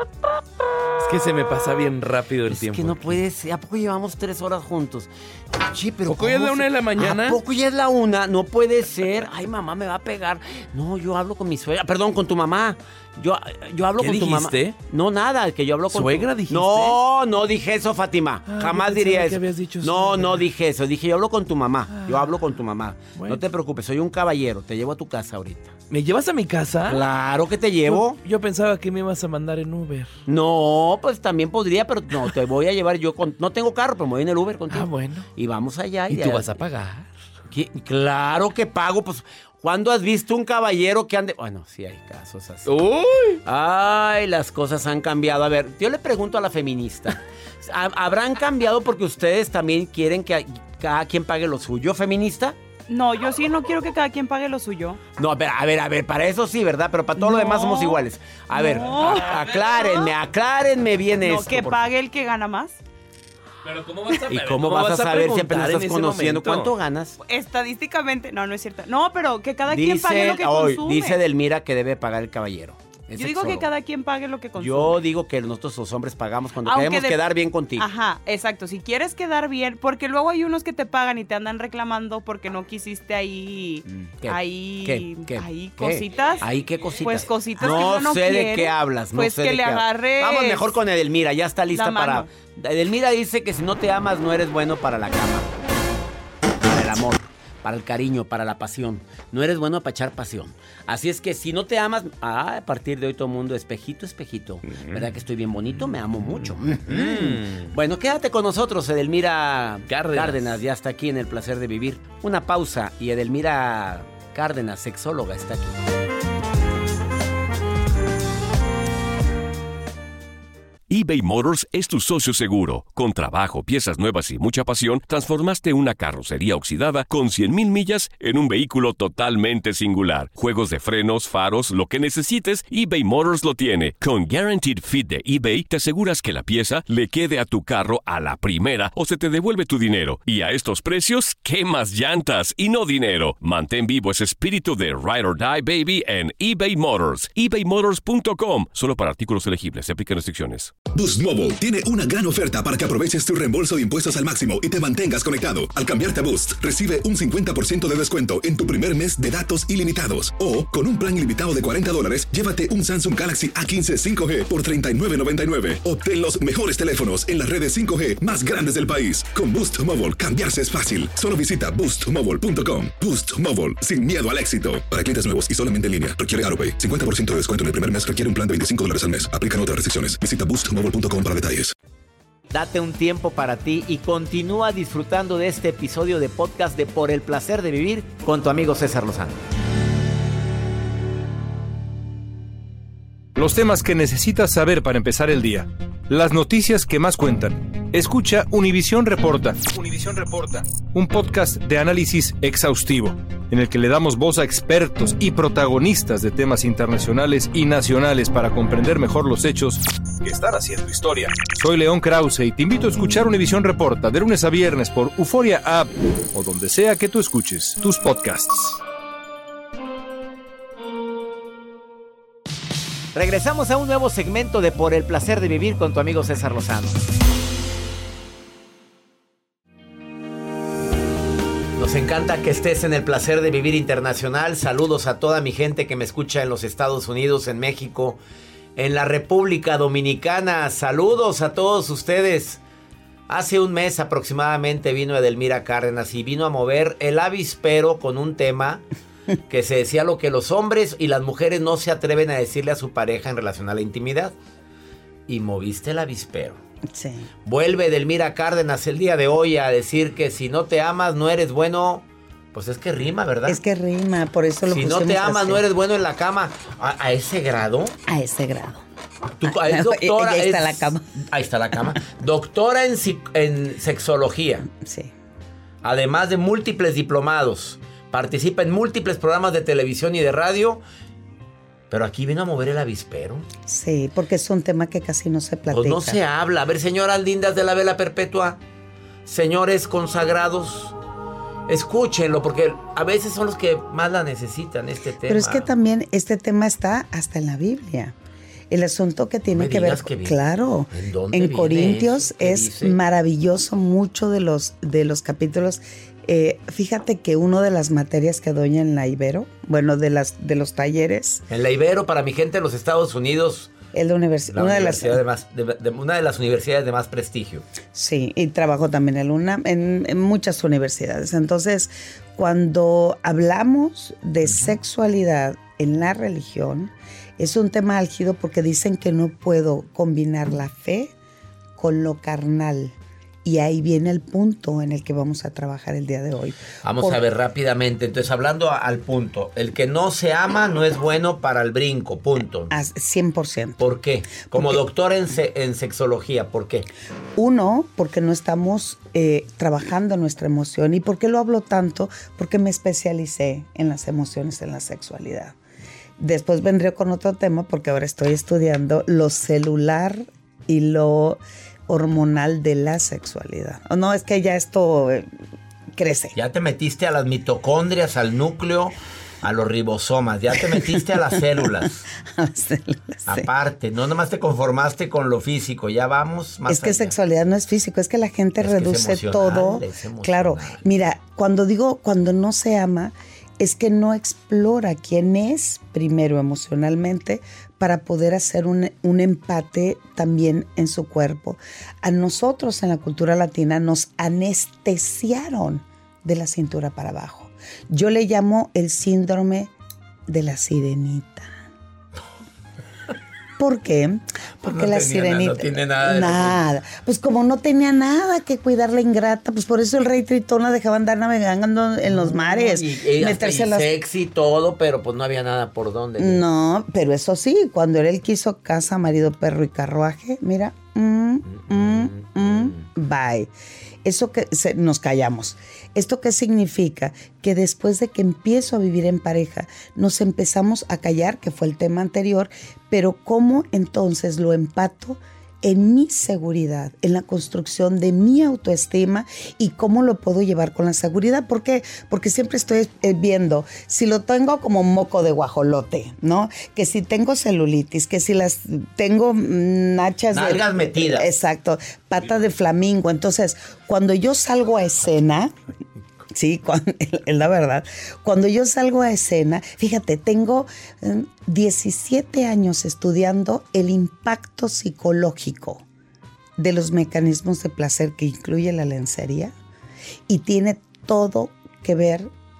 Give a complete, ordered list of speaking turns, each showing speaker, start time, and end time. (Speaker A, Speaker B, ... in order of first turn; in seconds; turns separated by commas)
Speaker A: 1.0-3.2, Speaker B: 2.5-25.8, Speaker A: 6.1-7.4, Speaker A: 14.0-14.8, Speaker A: 15.9-17.0, Speaker A: 18.5-20.4, Speaker A: 21.9-22.3, Speaker A: 23.1-23.4, Speaker A: 25.9-27.1, Speaker B: 26.8-28.2, Speaker A: 27.9-30.1, Speaker B: 30.3-36.6, Speaker A: 34.7-35.3, Speaker A: 36.1-37.1, Speaker B: 37.5-42.7, Speaker A: 42.7-43.4, Speaker B: 43.4-52.6, Speaker C: 52.9-55.0, Speaker B: 55.2-61.8, Speaker C: 57.2-60.0, Speaker A: 59.0-59.8, Speaker C: 61.2-62.8, Speaker A: 63.6-66.8, Speaker B: 64.3-67.2, Speaker C: 67.2-71.2, Speaker B: 69.7-73.7, Speaker C: 73.2-75.0, Speaker B: 74.6-77.9, Speaker C: 76.7-77.2, Speaker C: 77.8-86.5, Speaker B: 83.9-95.5, Speaker A: 86.4-87.2, Speaker C: 87.0-90.7, Speaker C: 91.7-92.3, Speaker B: 96.6-115.8, Speaker A: 104.7-105.1, Speaker A: 106.7-107.7, Speaker A: 109.9-110.6, Speaker D: 120.9-150.8, Speaker E: 150.9-181.7, Speaker B: 182.5-189.4, Speaker F: 193.4-218.8, Speaker B: 223.2-227.0, Speaker B: 231.8-238.2, Speaker B: 238.8-242.6, Speaker B: 243.3-248.8, Speaker B: 249.5-254.3, Speaker B: 255.3-256.6, Speaker G: 256.9-257.3, Speaker B: 257.5-263.6, Speaker G: 263.5-265.6, Speaker B: 264.7-267.9, Speaker G: 268.1-268.8, Speaker B: 269.4-274.7, Speaker G: 269.4-271.0, Speaker G: 274.7-275.1, Speaker B: 275.8-280.8, Speaker B: 281.9-283.5, Speaker G: 283.7-286.2, Speaker B: 285.7-288.6, Speaker B: 289.3-291.0, Speaker B: 291.7-295.7, Speaker G: 295.3-298.2, Speaker G: 298.7-311.4, Speaker B: 299.5-300.4, Speaker B: 300.9-303.0, Speaker B: 311.5-313.7, Speaker G: 313.9-315.2, Speaker B: 314.5-317.6, Speaker G: 317.9-331.1, Speaker G: 331.8-337.2, Speaker B: 336.8-342.7, Speaker G: 342.7-343.8, Speaker B: 343.8-346.9, Speaker G: 344.5-344.8, Speaker G: 347.4-355.6, Speaker G: 356.2-365.3, Speaker G: 365.9-366.4, Speaker B: 366.4-372.0, Speaker G: 370.5-373.5, Speaker B: 373.3-377.1, Speaker G: 376.7-399.7, Speaker B: 378.6-380.8, Speaker G: 400.3-401.5, Speaker G: 403.6-413.9, Speaker B: 404.6-406.6, Speaker B: 412.1-416.4, Speaker G: 416.2-423.5, Speaker B: 421.9-422.3, Speaker G: 424.0-455.5, Speaker B: 450.3-451.3, Speaker G: 456.3-465.9, Speaker G: 466.6-469.5, Speaker G: 470.3-472.3